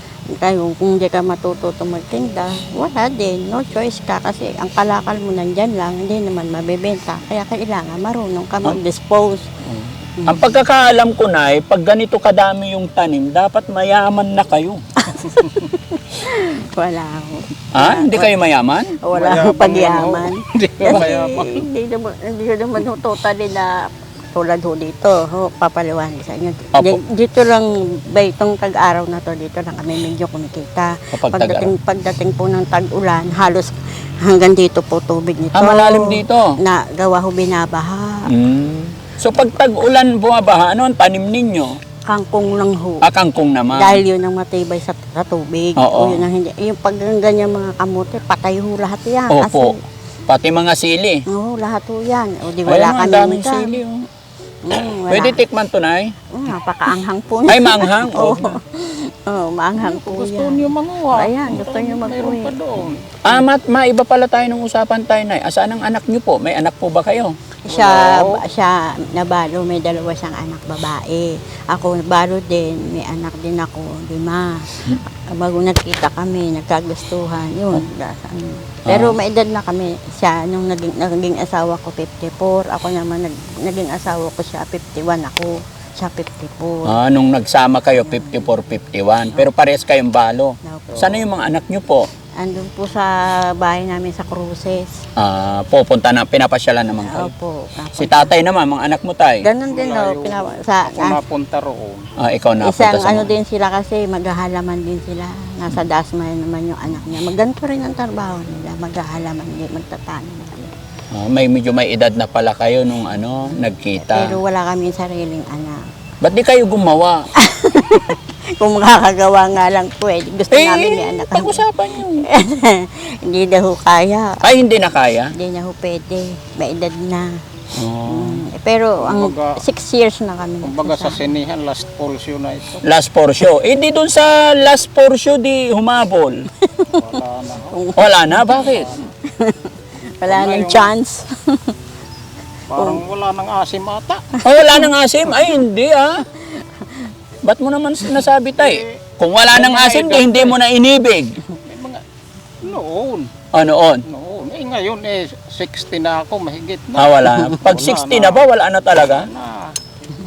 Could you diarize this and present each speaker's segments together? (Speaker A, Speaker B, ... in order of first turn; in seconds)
Speaker A: 0.3-9.5, 10.2-10.5, 15.0-18.3, 19.0-38.3, 42.1-43.1, 43.7-49.8, 51.3-53.8, 54.6-55.4, 56.3-62.5, 67.7-86.9, 88.0-88.4, 90.6-91.2, 92.4-95.0, 97.0-98.3, 99.4-101.2, 102.6-110.7, 114.0-115.9, 117.3-121.6, 122.2-124.4, 125.3-127.4, 128.1-131.2, 136.6-137.0, 137.7-138.6, 139.2-141.7, 144.4-144.8, 146.6-147.1
Speaker B: 9.6-14.8, 17.7-19.0, 26.7-27.0, 31.1-31.7, 35.5-36.5, 38.3-41.8, 43.0-44.0, 45.8-46.2, 49.3-49.7, 50.3-51.2, 52.6-54.0, 55.0-56.1, 57.5-58.6, 63.2-67.3, 78.9-79.2, 86.8-92.1, 95.2-97.3, 98.0-99.4, 102.2-103.3, 111.1-114.4, 116.2-117.2, 120.5-122.2, 124.4-125.3, 127.7-128.4, 132.8-136.5, 138.0-138.9, 144.4-146.2, 147.4-151.4, 153.5-154.0, 156.9-159.3
Speaker C: 19.1-21.7, 59.8-63.2, 67.7-68.4, 99.7-102.1, 129.0-129.6, 130.6-132.8, 137.0-137.8, 138.5-139.0, 140.2-140.9, 142.7-144.3, 148.6-149.0, 149.5-150.6, 151.6-152.0, 152.6-153.3, 154.1-158.4, 159.0-159.7